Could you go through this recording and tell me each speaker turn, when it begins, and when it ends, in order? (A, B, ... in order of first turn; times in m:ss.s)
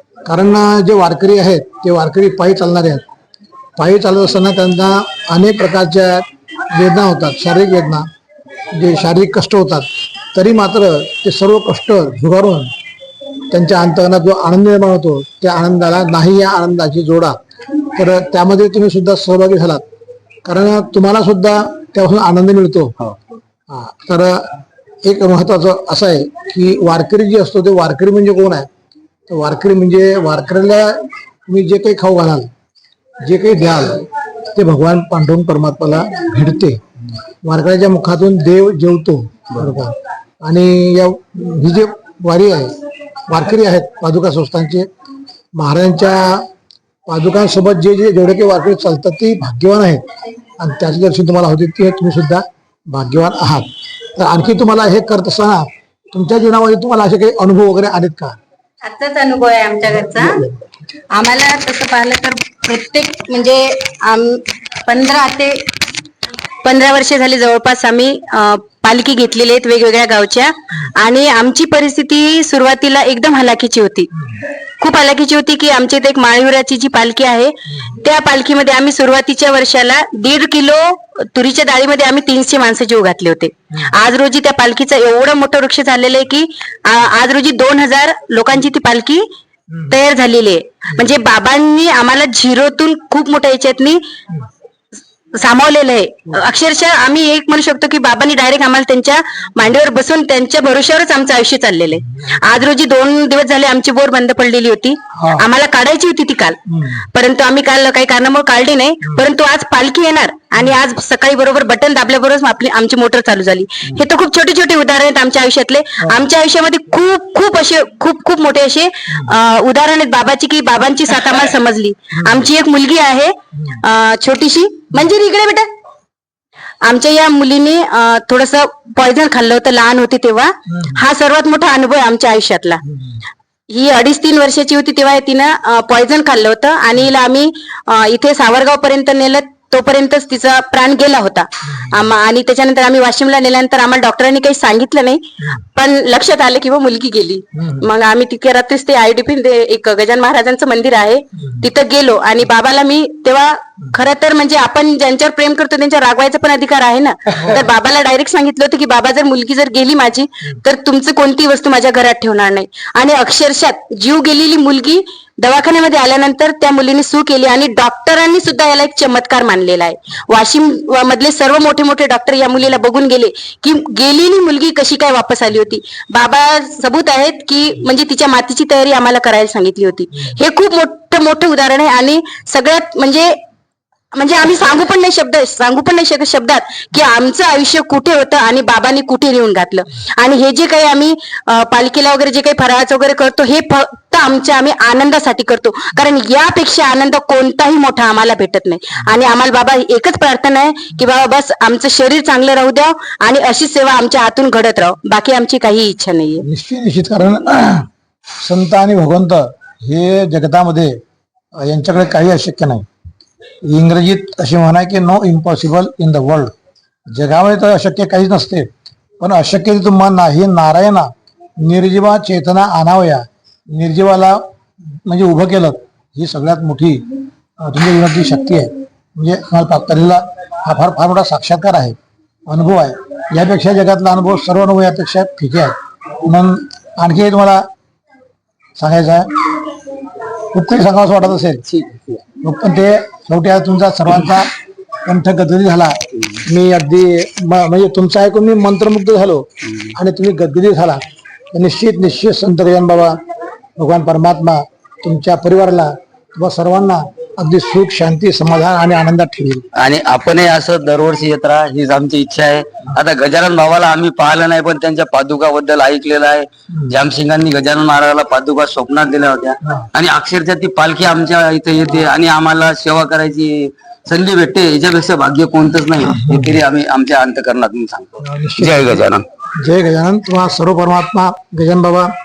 0:00.2-0:03.0 A
0:03.8-0:08.1 A
0:08.7-0:12.7 A
0:13.5-0:17.4 A
0:17.9-0:19.8 A
0:20.4-0:23.0 A
0:23.7-0:24.5 A
0:25.0-0:28.7 A
0:29.3-0:32.5 A
0:33.2-0:36.8 A
0:37.4-0:42.7 A
0:43.3-0:44.9 A
0:45.6-0:46.5 A
0:47.1-0:50.0 A
0:50.6-0:58.4 A
0:58.8-1:00.4 B
1:01.1-1:05.7 B
1:06.6-1:14.1 B
1:14.8-1:29.3 B
1:29.9-1:34.0 B
1:35.3-1:46.6 B
1:45.1-1:45.4 A
1:46.7-1:47.0 A
1:47.1-2:05.7 B
1:59.1-1:59.4 A
2:02.2-2:02.5 A
2:06.8-2:12.8 B
2:10.7-2:11.0 A
2:13.7-3:03.4 B
2:27.6-2:27.8 A
3:04.1-3:26.4 B
3:26.4-3:27.9 A
3:28.4-3:31.0 A
3:31.6-3:32.8 A
3:33.6-3:36.5 A
3:37.1-3:38.7 A
3:39.2-3:44.4 A
3:45.1-3:47.1 A
3:47.6-3:52.0 A
3:52.5-3:57.6 A
3:58.8-3:59.3 A
4:00.5-4:01.6 A
4:01.7-4:02.2 C
4:02.4-4:04.5 A
4:05.0-4:11.0 A
4:11.5-4:13.2 A
4:13.8-4:19.7 A
4:19.8-4:39.2 C
4:36.0-4:36.6 A
4:38.2-4:39.0 A
4:39.6-4:42.1 A